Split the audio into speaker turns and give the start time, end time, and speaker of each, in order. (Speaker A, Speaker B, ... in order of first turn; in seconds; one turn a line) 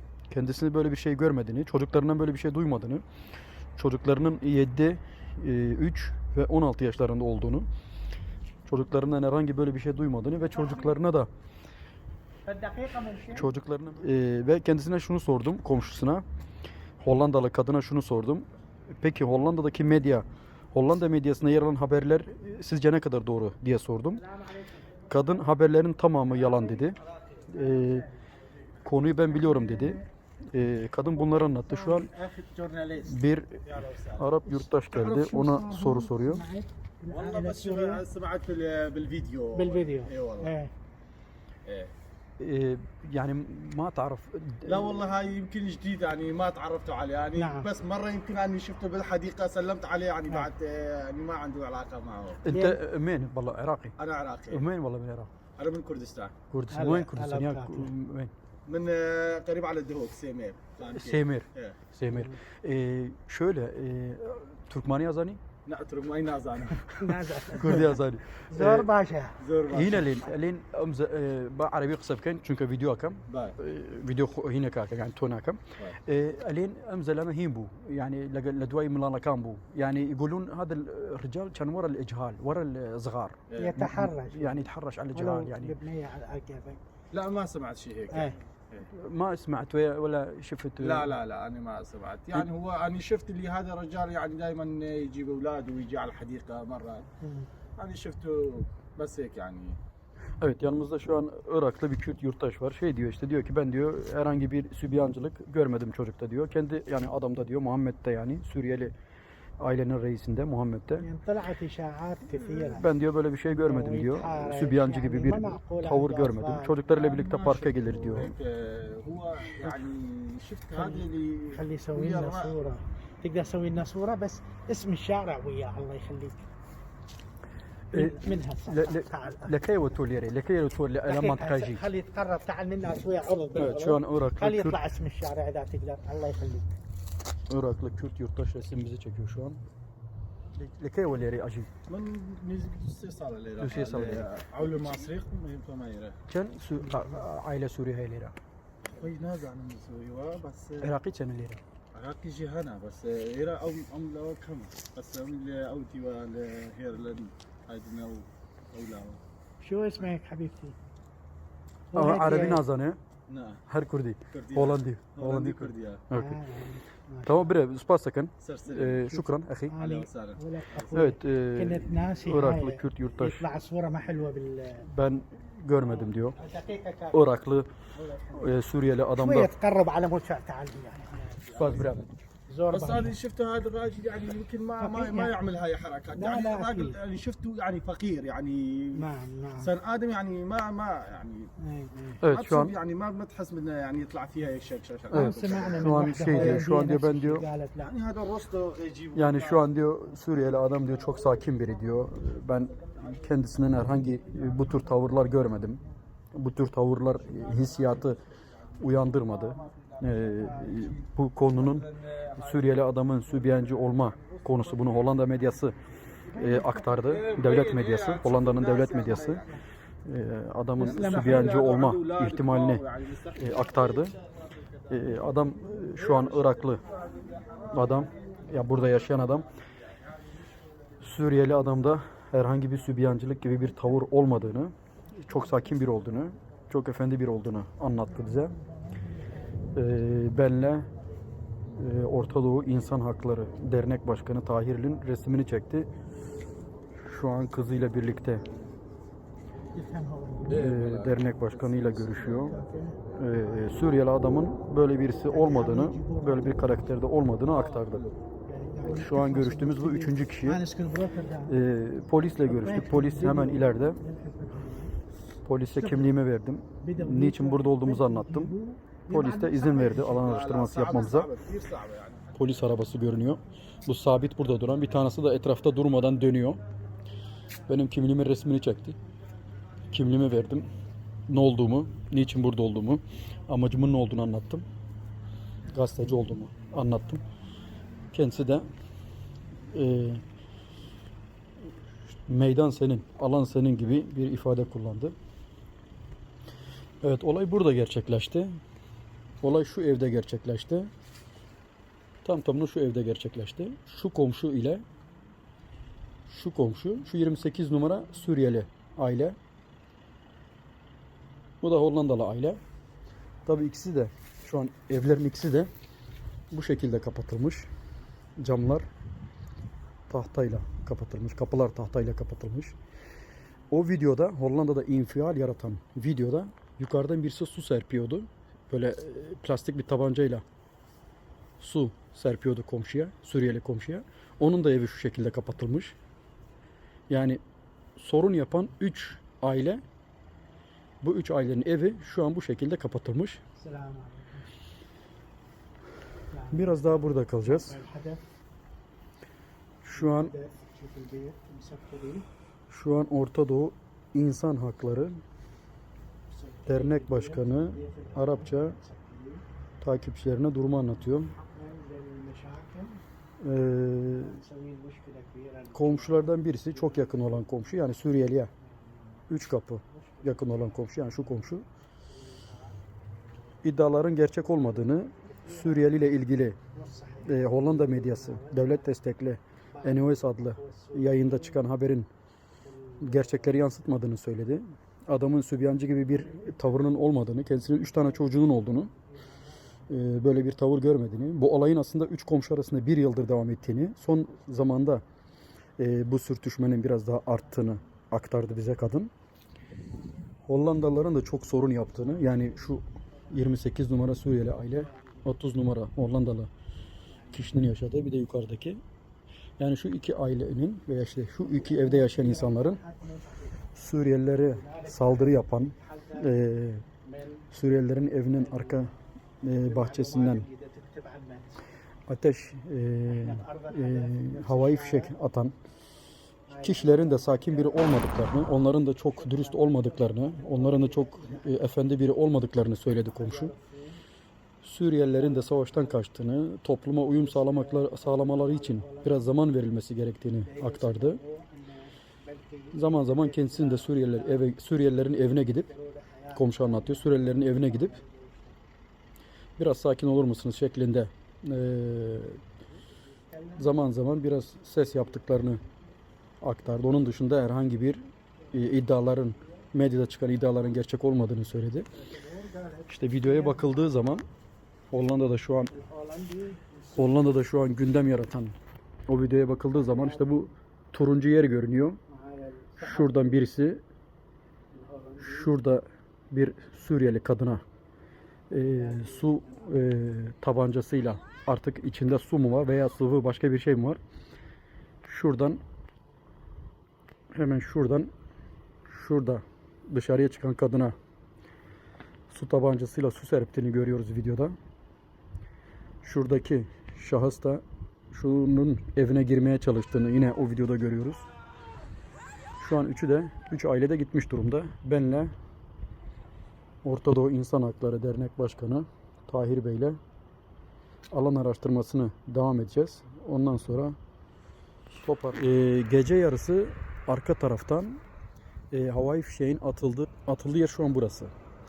Speaker A: 0.3-3.0
Speaker A: 3.8-7.7
Speaker A: 8.7-11.3
Speaker B: 12.4-13.5
Speaker A: 13.3-16.2
Speaker A: 17.0-18.5
Speaker A: 19.0-24.3
Speaker A: 25.1-28.1
Speaker A: 28.8-32.1
Speaker B: 29.5-29.9
Speaker B: 31.3-32.9
Speaker A: 33.0-36.5
Speaker C: 33.6-34.3
Speaker B: 34.9-38.0
Speaker C: 37.1-40.5
Speaker B: 39.6-40.7
Speaker C: 41.6-41.9
Speaker A: 42.4-45.0
Speaker C: 44.6-52.4
Speaker B: 47.4-47.7
Speaker A: 52.4-54.0
Speaker B: 52.5-52.8
Speaker C: 54.0-54.7
Speaker A: 54.5-55.3
Speaker C: 55.6-56.3
Speaker A: 56.5-58.3
Speaker B: 56.7-57.9
Speaker C: 58.7-61.8
Speaker A: 60.9-65.4
Speaker C: 65.7-67.1
Speaker B: 66.9-67.9
Speaker A: 67.5-68.9
Speaker B: 68.5-69.4
Speaker C: 69.4-70.2
Speaker A: 69.7-85.8
Speaker C: 73.3-73.6
Speaker C: 83.5-83.8
Speaker B: 83.6-86.8
Speaker C: 87.1-88.9
Speaker B: 88.1-88.4
Speaker A: 88.9-91.1
Speaker C: 90.8-97.1
Speaker B: 97.2-97.5
Speaker C: 97.8-99.8
Speaker A: 100.4-108.9
Speaker A: 109.6-111.1
Speaker B: 111.0-112.9
Speaker A: 112.5-118.3
Speaker B: 113.5-116.8
Speaker C: 116.9-122.7
Speaker B: 120.8-126.5
Speaker A: 127.9-131.8
Speaker B: 127.9-129.6
Speaker B: 131.1-136.7
Speaker A: 133.6-134.8
Speaker A: 137.5-139.6
Speaker A: 140.6-141.7
Speaker C: 141.9-146.2
Speaker A: 143.6-144.3
Speaker A: 146.3-148.4
Speaker C: 148.9-150.9
Speaker A: 150.8-151.6
Speaker C: 151.9-159.2
Speaker B: 159.6-160.8
Speaker B: 161.9-162.6
Speaker A: 161.9-163.0
Speaker C: 163.3-163.6
Speaker A: 163.7-166.4
Speaker C: 164.3-166.0
Speaker B: 166.1-167.5
Speaker A: 167.2-169.8
Speaker C: 168.4-169.0
Speaker B: 168.9-174.9
Speaker C: 169.8-170.9
Speaker A: 170.9-173.5
Speaker A: 174.8-176.4
Speaker B: 175.8-177.2
Speaker A: 177.1-177.7
Speaker B: 178.0-178.6
Speaker A: 178.3-179.5
Speaker B: 179.1-181.7
Speaker C: 181.5-181.9
Speaker A: 181.6-182.2
Speaker B: 182.5-183.2
Speaker C: 182.7-191.5
Speaker B: 184.8-185.3
Speaker B: 186.2-187.0
Speaker B: 189.0-189.7
Speaker B: 191.6-192.2
Speaker A: 192.2-192.8
Speaker C: 192.2-196.7
Speaker A: 195.1-197.5
Speaker B: 195.1-197.9
Speaker C: 197.8-199.9
Speaker A: 199.2-205.8
Speaker C: 200.6-201.6
Speaker C: 202.8-203.1
Speaker B: 204.9-205.2
Speaker A: 206.3-208.2
Speaker C: 207.3-208.1
Speaker A: 208.8-215.8
Speaker C: 209.0-215.2
Speaker A: 216.3-219.4
Speaker C: 216.9-219.6
Speaker A: 220.1-222.8
Speaker C: 220.8-229.7
Speaker B: 220.8-221.5
Speaker A: 223.3-224.2
Speaker A: 224.9-226.8
Speaker A: 227.7-229.5
Speaker A: 231.0-238.6
Speaker A: 239.7-240.9
Speaker A: 241.7-245.9
Speaker A: 247.0-248.4
Speaker B: 249.7-250.7
Speaker C: 250.5-252.7
Speaker A: 250.5-252.6
Speaker B: 252.5-253.0
Speaker A: 253.1-258.0
Speaker B: 255.3-256.9
Speaker C: 257.5-258.2
Speaker B: 258.5-261.6
Speaker A: 258.9-260.6
Speaker A: 261.5-264.0
Speaker B: 262.4-264.9
Speaker A: 265.4-268.6
Speaker B: 265.8-266.1
Speaker B: 266.8-270.2
Speaker A: 269.1-271.3
Speaker C: 270.1-272.4
Speaker A: 272.3-276.6
Speaker A: 277.7-279.0
Speaker A: 279.9-280.7
Speaker A: 281.3-284.6
Speaker A: 285.7-287.2
Speaker A: 288.1-288.7
Speaker A: 289.7-290.2
Speaker A: 292.3-295.1
Speaker A: 297.0-298.6
Speaker A: 299.4-300.9
Speaker A: 302.2-304.8
Speaker A: 306.3-309.4
Speaker A: 311.6-312.6
Speaker A: 313.5-315.7
Speaker A: 316.5-317.7
Speaker A: 318.4-318.9
Speaker A: 320.1-322.8
Speaker A: 323.7-330.4
Speaker A: 331.6-336.0
Speaker A: 337.1-337.4
Speaker A: 338.0-339.8
Speaker A: 341.0-343.4
Speaker B: 343.6-344.6
Speaker B: 346.3-348.2
Speaker A: 346.5-347.8
Speaker A: 349.8-350.4
Speaker B: 349.9-352.3
Speaker A: 352.7-355.2
Speaker B: 356.3-359.4
Speaker A: 356.7-358.8
Speaker A: 359.8-361.4
Speaker B: 361.4-363.0
Speaker A: 363.4-364.4
Speaker B: 364.2-367.4
Speaker A: 365.7-368.5
Speaker A: 369.3-371.6
Speaker B: 369.9-370.7
Speaker B: 372.1-372.8
Speaker A: 373.6-376.6
Speaker B: 375.2-375.9
Speaker B: 376.7-378.9
Speaker A: 377.2-382.1
Speaker B: 379.7-381.6
Speaker B: 382.6-383.8
Speaker A: 383.0-388.9
Speaker B: 386.3-386.5
Speaker B: 388.3-389.5
Speaker A: 389.9-395.0
Speaker A: 395.8-399.1
Speaker A: 400.5-406.5
Speaker B: 402.0-403.5
Speaker B: 404.7-405.2
Speaker B: 407.1-407.4
Speaker A: 407.3-408.8
Speaker A: 409.6-412.8
Speaker B: 411.4-413.7
Speaker A: 413.7-416.9
Speaker B: 414.5-417.5
Speaker A: 417.5-420.5
Speaker B: 418.3-418.9
Speaker B: 419.6-421.6
Speaker A: 422.1-425.6
Speaker B: 423.1-425.2
Speaker B: 426.5-431.6
Speaker A: 426.6-433.5
Speaker B: 433.0-434.0
Speaker A: 434.6-441.2
Speaker B: 435.2-436.0
Speaker B: 437.2-439.3
Speaker B: 440.4-444.4
Speaker A: 442.7-445.7
Speaker B: 445.6-448.6
Speaker A: 446.3-448.0
Speaker A: 449.6-452.4
Speaker B: 453.1-453.8
Speaker A: 453.6-455.6
Speaker A: 456.4-461.9
Speaker B: 461.9-464.2
Speaker A: 462.9-464.3
Speaker A: 464.9-465.7
Speaker B: 465.7-467.0
Speaker A: 466.9-468.6
Speaker A: 469.1-472.0
Speaker B: 469.8-470.3
Speaker B: 472.1-473.4
Speaker A: 472.8-473.8
Speaker B: 474.7-475.5
Speaker A: 475.2-477.6
Speaker A: 478.5-484.0
Speaker B: 478.6-479.7
Speaker A: 485.0-485.6
Speaker A: 487.3-488.1
Speaker A: 488.9-491.0
Speaker A: 492.3-494.6
Speaker A: 496.0-501.2
Speaker A: 502.6-505.3
Speaker A: 506.8-510.0
Speaker A: 511.1-514.0
Speaker A: 515.0-518.0
Speaker A: 518.7-521.3